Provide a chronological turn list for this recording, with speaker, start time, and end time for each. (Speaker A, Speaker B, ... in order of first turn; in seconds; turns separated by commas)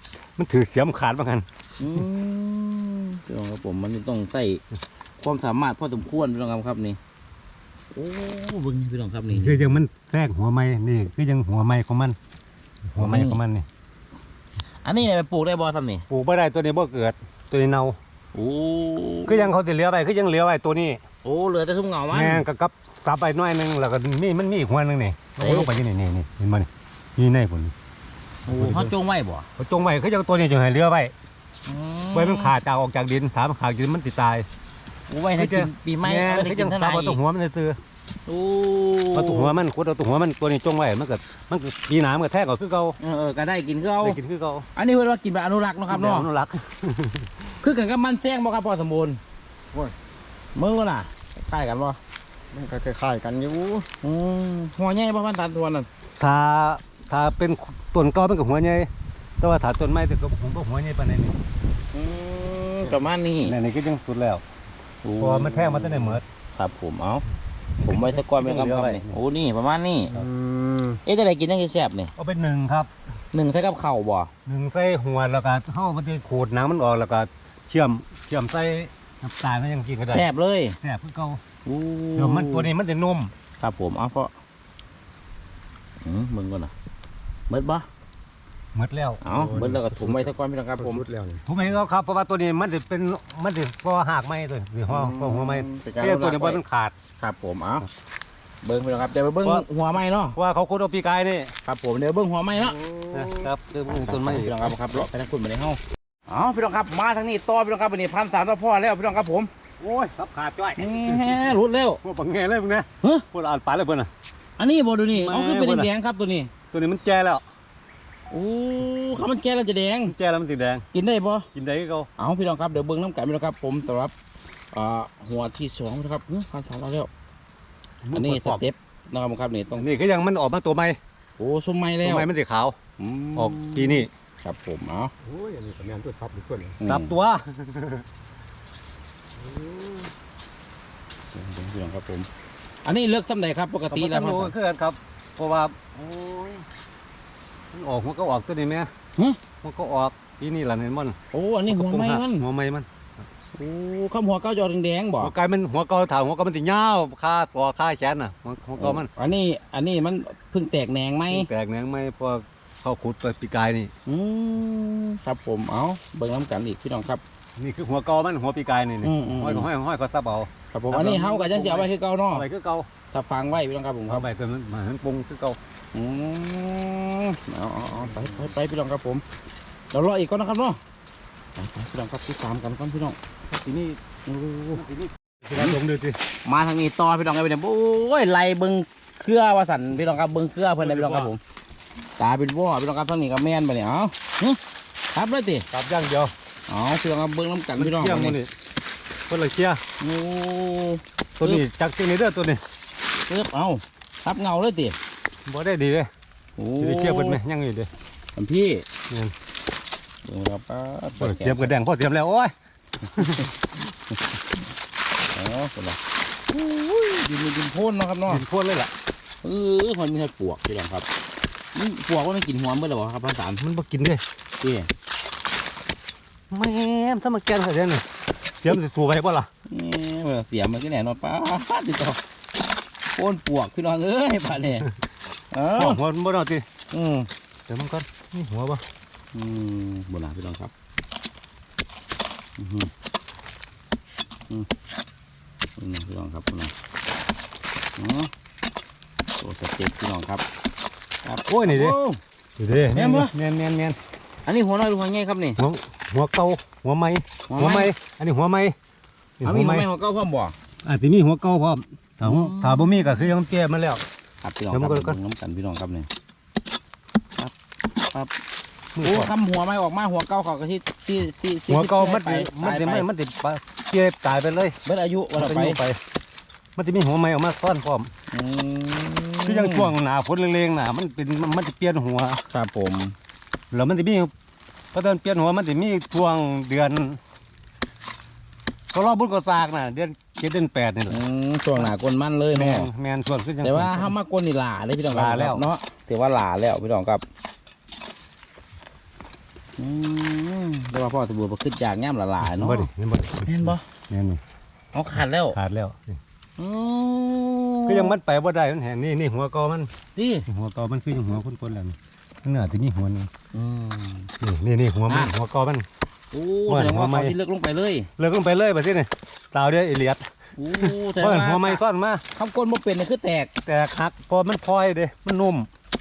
Speaker A: 0.4-1.5, Speaker B: 1.8-4.6, Speaker B: 5.2-7.0, Speaker B: 7.9-9.7, Speaker A: 9.3-12.2, Speaker A: 12.9-13.7, Speaker B: 13.0-13.4, Speaker B: 14.8-16.1, Speaker A: 16.1-18.0, Speaker B: 18.3-19.5, Speaker A: 19.3-21.0, Speaker B: 21.2-22.5, Speaker A: 22.1-27.7, Speaker B: 25.4-25.7, Speaker A: 28.5-28.9, Speaker B: 28.5-29.5, Speaker A: 29.6-31.1, Speaker B: 31.7-32.5, Speaker A: 32.1-34.5, Speaker B: 35.1-37.2, Speaker A: 35.4-37.8, Speaker B: 38.3-39.6, Speaker A: 39.1-43.0, Speaker B: 43.0-44.2, Speaker A: 44.0-44.7, Speaker B: 44.8-46.3, Speaker A: 45.9-47.4, Speaker B: 47.6-49.2, Speaker B: 50.5-52.0, Speaker C: 52.5-53.9, Speaker B: 54.0-55.9, Speaker A: 56.2-58.9, Speaker A: 59.4-61.4, Speaker B: 61.9-63.5, Speaker A: 63.4-64.4, Speaker B: 65.0-67.2, Speaker A: 65.2-66.2, Speaker A: 67.8-69.2, Speaker B: 67.8-70.2, Speaker C: 70.2-71.0, Speaker B: 71.0-72.1, Speaker A: 72.2-72.9, Speaker B: 73.3-74.3, Speaker A: 74.5-80.3, Speaker B: 80.1-80.8, Speaker A: 80.8-81.4, Speaker B: 81.7-82.7, Speaker A: 82.2-83.3, Speaker B: 83.6-84.3, Speaker B: 86.0-86.7, Speaker B: 87.5-87.9, Speaker A: 88.7-89.8, Speaker B: 89.2-91.0, Speaker C: 89.6-90.2, Speaker C: 90.9-91.4, Speaker A: 91.5-97.0, Speaker B: 95.0-96.6, Speaker B: 97.2-97.9, Speaker B: 98.6-100.4, Speaker A: 100.3-101.5, Speaker B: 101.7-102.8, Speaker C: 102.7-103.0, Speaker A: 103.1-104.8, Speaker B: 103.9-109.5, Speaker A: 109.8-114.1, Speaker B: 110.8-112.0, Speaker B: 114.6-116.5, Speaker A: 115.1-115.9, Speaker A: 116.7-117.4, Speaker B: 118.3-120.2, Speaker A: 120.1-120.9, Speaker B: 120.9-121.5, Speaker A: 121.5-122.1, Speaker B: 122.2-124.1, Speaker B: 124.7-127.1, Speaker A: 128.0-128.6, Speaker B: 128.1-129.9, Speaker A: 129.8-131.0, Speaker B: 131.4-132.3, Speaker A: 132.0-132.8, Speaker B: 133.0-135.1, Speaker A: 133.4-134.1, Speaker C: 135.2-136.8, Speaker B: 136.8-137.1, Speaker A: 136.8-138.1, Speaker C: 139.4-140.1, Speaker B: 141.3-142.3, Speaker B: 142.8-144.6, Speaker A: 143.9-146.7, Speaker A: 147.7-148.9, Speaker A: 149.6-151.2, Speaker B: 151.3-152.4, Speaker A: 151.7-153.2, Speaker B: 153.6-155.3, Speaker A: 155.2-159.1, Speaker B: 158.8-161.5, Speaker A: 161.3-163.9, Speaker B: 164.1-167.2, Speaker A: 167.6-172.9, Speaker B: 169.0-169.7, Speaker B: 170.7-172.4, Speaker B: 173.1-174.3, Speaker A: 174.1-175.6, Speaker B: 175.9-179.2, Speaker B: 179.9-180.8, Speaker B: 181.6-183.2, Speaker A: 183.5-184.0, Speaker B: 184.3-184.8, Speaker A: 184.8-186.2, Speaker B: 186.4-191.4, Speaker A: 190.8-191.3, Speaker B: 192.2-194.6, Speaker B: 195.1-195.7, Speaker A: 195.7-196.3, Speaker B: 196.7-198.4, Speaker A: 197.8-198.5, Speaker A: 199.3-199.8, Speaker B: 200.0-201.6, Speaker A: 201.4-202.6, Speaker B: 203.3-205.0, Speaker A: 205.5-206.1, Speaker B: 206.6-207.4, Speaker A: 206.8-207.9, Speaker B: 208.4-208.8, Speaker B: 210.2-211.7, Speaker A: 211.2-212.5, Speaker A: 213.1-213.5, Speaker B: 213.2-213.4, Speaker B: 215.3-216.0, Speaker B: 216.5-218.4, Speaker A: 218.3-218.9, Speaker B: 219.4-221.1, Speaker B: 221.8-223.6, Speaker A: 223.6-224.2, Speaker B: 224.6-224.9, Speaker A: 226.5-228.1, Speaker A: 228.6-229.5, Speaker B: 229.7-232.2, Speaker B: 233.2-234.9, Speaker B: 235.5-236.0, Speaker A: 235.8-236.7, Speaker B: 236.9-237.3, Speaker A: 237.7-238.8, Speaker B: 239.3-240.7, Speaker B: 242.6-242.9, Speaker B: 245.8-246.7, Speaker B: 248.0-248.3, Speaker B: 249.4-250.4, Speaker B: 251.2-252.2, Speaker A: 251.5-252.0, Speaker A: 252.6-254.0, Speaker B: 252.9-253.3, Speaker B: 254.5-255.6, Speaker A: 255.6-258.8, Speaker B: 257.5-257.9, Speaker A: 259.4-259.9, Speaker B: 259.4-260.6, Speaker A: 260.9-264.0, Speaker B: 262.2-263.3, Speaker B: 264.4-266.1, Speaker A: 264.7-265.2, Speaker B: 267.4-268.3, Speaker A: 268.9-269.3, Speaker B: 269.0-273.1, Speaker A: 271.7-274.8, Speaker B: 274.9-275.8, Speaker A: 275.4-276.0, Speaker A: 276.8-278.1, Speaker B: 278.3-279.9, Speaker A: 279.5-282.4, Speaker B: 282.5-283.1, Speaker A: 283.7-284.3, Speaker A: 284.9-287.2, Speaker A: 288.9-291.2, Speaker B: 291.1-292.9, Speaker A: 292.5-294.1, Speaker B: 293.6-297.2, Speaker A: 295.1-295.7, Speaker B: 299.8-302.9, Speaker A: 302.4-304.4, Speaker B: 303.4-303.8, Speaker B: 304.9-305.6, Speaker A: 305.5-306.2, Speaker B: 306.6-308.1, Speaker A: 307.9-309.9, Speaker B: 310.2-310.5, Speaker A: 310.5-313.3, Speaker B: 313.5-314.3, Speaker A: 314.4-315.9, Speaker B: 316.3-318.1, Speaker A: 316.7-317.4, Speaker A: 318.2-322.2, Speaker B: 320.6-321.8, Speaker B: 322.4-323.5, Speaker A: 323.7-325.7